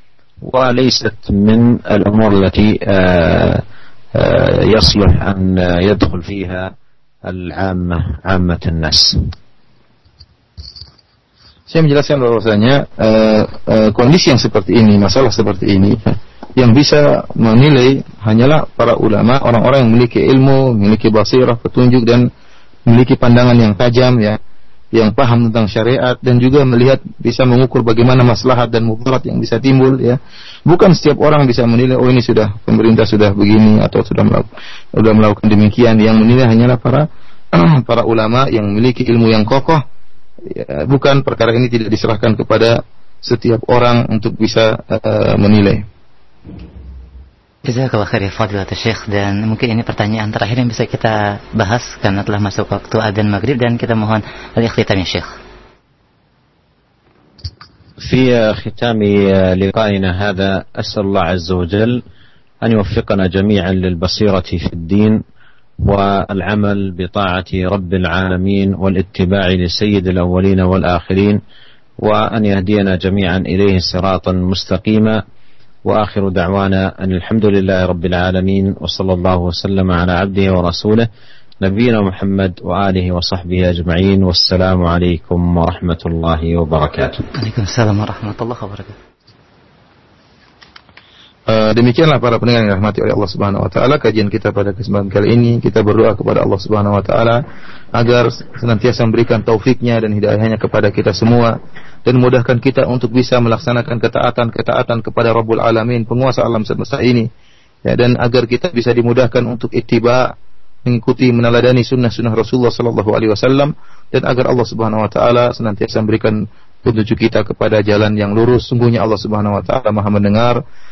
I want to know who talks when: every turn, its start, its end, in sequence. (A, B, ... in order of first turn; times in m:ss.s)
0:00.4-0:09.3 A
0:11.7-0:22.3 B
0:22.9-0:24.4 B
0:24.9-0:39.8 B
0:40.4-0:45.8 B
0:47.6-0:55.3 C
0:58.0-1:02.0 A
1:02.6-1:05.2 A
1:05.8-1:11.4 A
1:12.0-1:15.2 A
1:15.8-1:21.1 A
1:21.6-1:27.2 A
1:27.3-1:29.0 C
1:31.5-1:37.4 B
1:37.9-1:47.3 B
1:47.8-1:50.3 B
1:50.8-2:00.6 B